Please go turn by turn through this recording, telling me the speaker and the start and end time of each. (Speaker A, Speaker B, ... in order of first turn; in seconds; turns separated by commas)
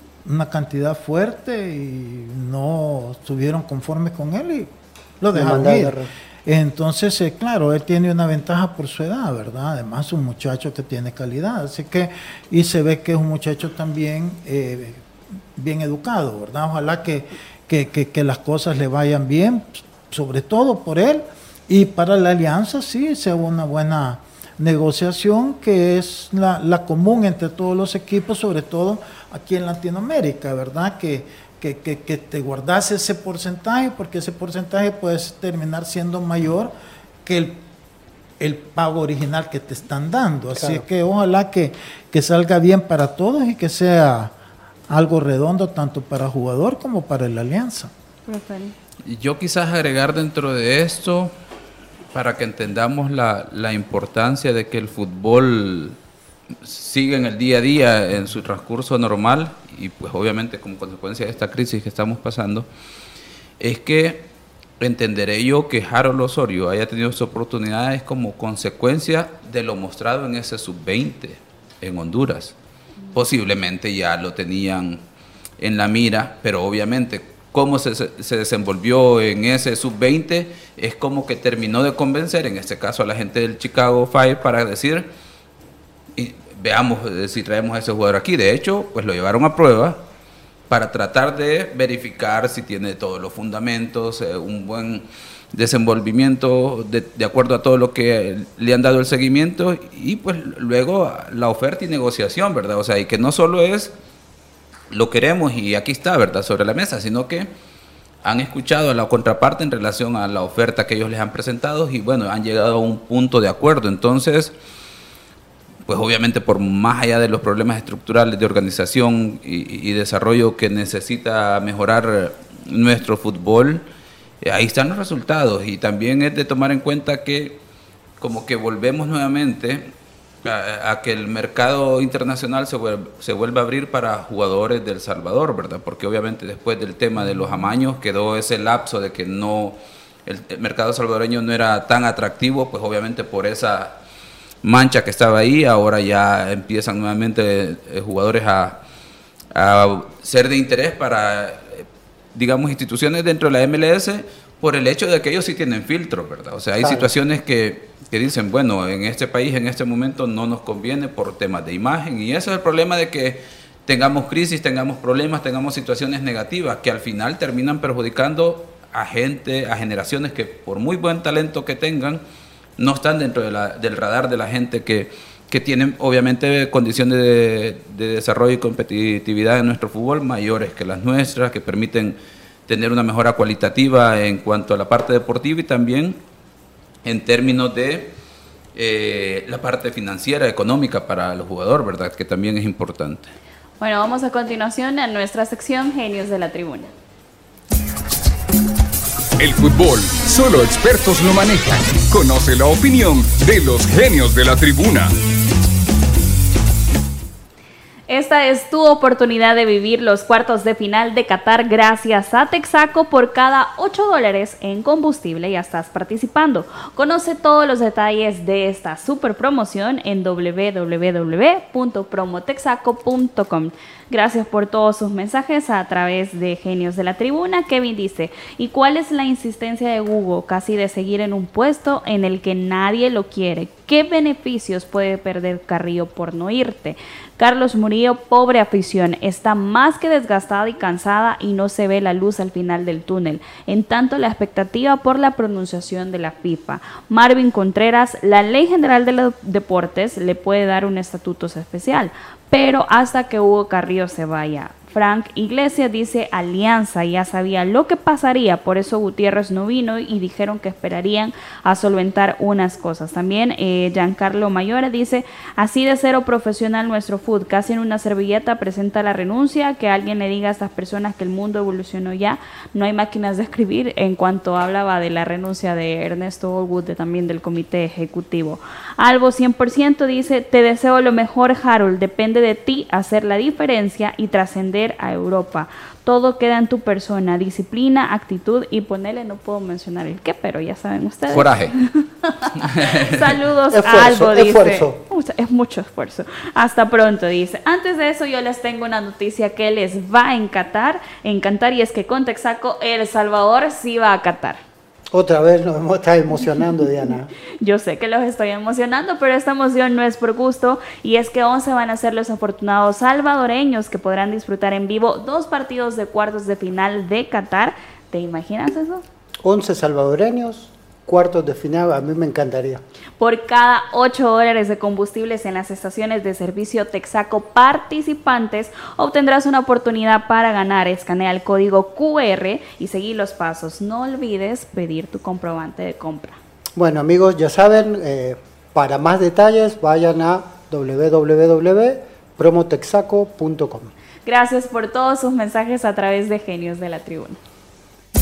Speaker A: 0.2-36.7, Speaker B: 5.3-6.1, Speaker A: 37.2-37.6, Speaker A: 38.4-44.3, Speaker B: 40.6-40.8, Speaker A: 44.9-47.9, Speaker C: 48.3-48.7, Speaker D: 49.0-51.3, Speaker D: 52.1-56.0, Speaker D: 56.6-62.7, Speaker D: 63.6-64.3, Speaker D: 64.8-72.5, Speaker D: 73.1-75.0, Speaker D: 75.6-85.1, Speaker D: 86.2-90.0, Speaker D: 90.7-103.9, Speaker D: 104.9-107.5, Speaker D: 108.2-114.5, Speaker D: 115.9-123.8, Speaker D: 124.4-127.6, Speaker D: 128.2-129.9, Speaker D: 130.4-143.9, Speaker D: 144.6-148.8, Speaker D: 149.5-172.2, Speaker B: 156.8-157.1, Speaker D: 172.8-182.2, Speaker D: 182.7-186.2, Speaker D: 187.0-188.1, Speaker D: 188.7-193.3, Speaker C: 193.8-196.9, Speaker E: 199.4-205.1, Speaker C: 208.1-304.6, Speaker D: 291.3-291.7, Speaker D: 292.6-293.2, Speaker B: 293.7-295.0, Speaker B: 305.1-307.3, Speaker C: 307.6-319.0, Speaker B: 319.4-322.8, Speaker C: 323.2-336.4, Speaker B: 336.8-343.9, Speaker C: 344.2-347.4